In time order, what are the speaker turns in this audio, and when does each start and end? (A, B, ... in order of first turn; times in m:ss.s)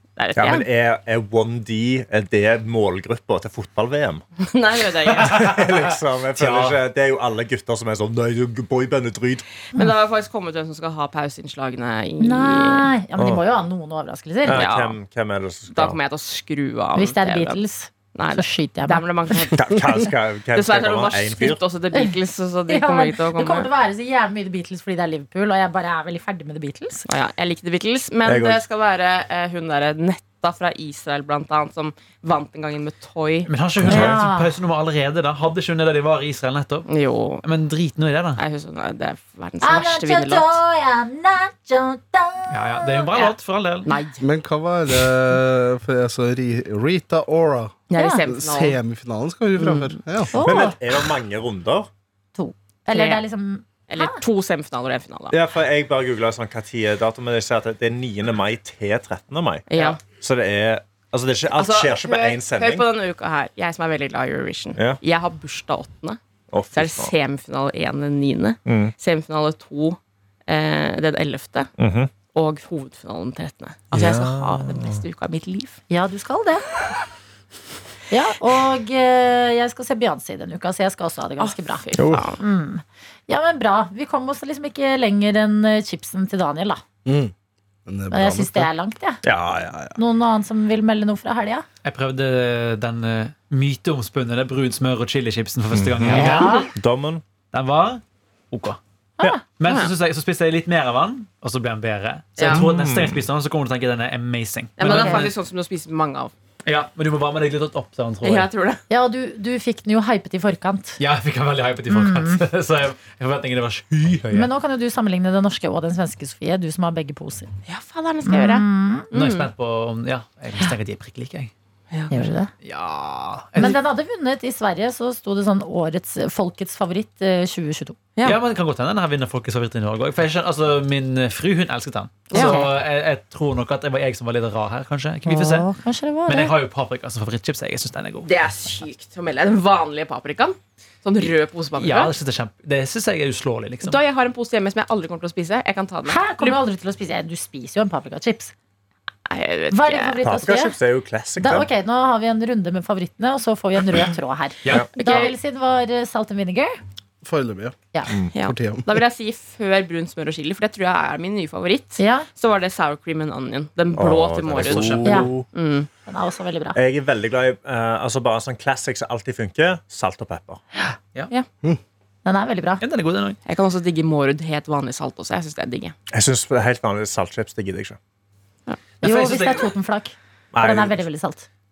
0:00.2-0:00.7 A
0:00.4-0:04.2 B
0:04.4-0:05.4 A
0:05.2-0:09.4 B
0:05.3-0:05.6 C
0:06.4-0:06.8 C
0:09.7-0:12.9 A
0:12.2-0:14.7 D
0:13.2-0:13.4 B
0:14.4-0:16.0 B
0:14.5-0:15.0 A
0:15.7-0:17.6 A
0:17.0-0:19.4 D
0:18.1-0:19.7 A
0:19.5-0:21.6 B
0:20.5-0:23.7 A
0:22.7-0:27.1 D
0:27.1-0:33.5 A
0:28.3-0:28.6 B
0:33.5-0:36.9 C
0:33.8-0:34.2 B
0:33.8-0:34.5 D
0:36.9-0:37.4 A
0:37.4-0:38.4 C
0:38.4-0:40.6 A
0:39.6-0:43.2 D
0:42.5-0:43.9 C
0:43.9-0:44.2 A
0:44.2-0:50.4 E
0:47.9-0:48.8 A
0:48.0-0:48.2 D
0:49.6-0:50.0 A
0:50.3-0:50.8 D
0:50.4-0:51.9 B
0:52.4-0:54.2 D
0:52.9-0:53.2 A
0:53.9-0:55.4 A
0:55.3-1:02.8 B
0:59.7-1:00.0 A
1:01.5-1:06.2 A
1:06.5-1:07.1 B
1:06.7-1:11.7 A
1:08.7-1:08.9 B
1:11.8-1:12.1 B
1:12.3-1:15.8 A
1:13.9-1:15.0 B
1:15.9-1:16.7 D
1:18.1-1:21.8 D
1:21.4-1:22.4 A
1:22.0-1:22.3 B
1:22.4-1:26.8 D
1:27.0-1:27.3 E
1:27.9-1:28.7 E
1:28.1-1:29.2 D
1:29.2-1:29.9 B
1:30.0-1:31.7 D
1:31.8-1:36.7 C
1:35.7-1:37.2 B
1:36.1-1:36.7 D
1:37.5-1:38.8 C
1:39.5-1:45.3 C
1:42.4-1:42.6 A
1:42.4-1:43.3 B
1:44.8-1:46.3 A
1:44.9-1:45.3 D
1:46.6-1:48.5 C
1:48.2-1:48.8 A
1:48.9-1:51.0 D
1:51.0-1:54.5 C
1:51.9-1:52.4 D
1:54.3-1:57.5 D
1:57.7-1:59.5 A
1:58.3-1:59.1 D
1:59.1-2:01.5 C
2:02.1-2:02.5 D
2:02.6-2:03.8 C
2:03.6-2:08.0 D
2:08.2-2:15.7 C
2:12.3-2:12.7 A
2:12.3-2:12.7 D
2:15.3-2:16.5 D
2:16.3-2:18.3 C
2:18.2-2:22.1 A
2:21.8-2:24.0 C
2:23.8-2:26.6 A
2:26.1-2:28.5 D
2:29.3-2:30.2 A
2:29.7-2:30.8 D
2:30.2-2:31.7 B
2:31.4-2:36.8 D
2:35.0-2:35.4 A
2:37.2-2:37.8 E
2:38.3-2:45.9 A
2:38.4-2:38.9 E
2:42.0-2:42.3 D
2:44.0-2:45.5 B
2:44.6-2:45.3 C
2:45.0-2:45.3 D
2:46.1-2:46.8 D
2:46.8-2:50.6 B
2:52.2-2:52.8 D
2:52.8-2:53.4 C
2:53.5-2:55.9 A
2:56.1-2:58.0 B
2:59.0-2:59.7 C
2:59.0-3:01.5 D
3:00.5-3:01.0 B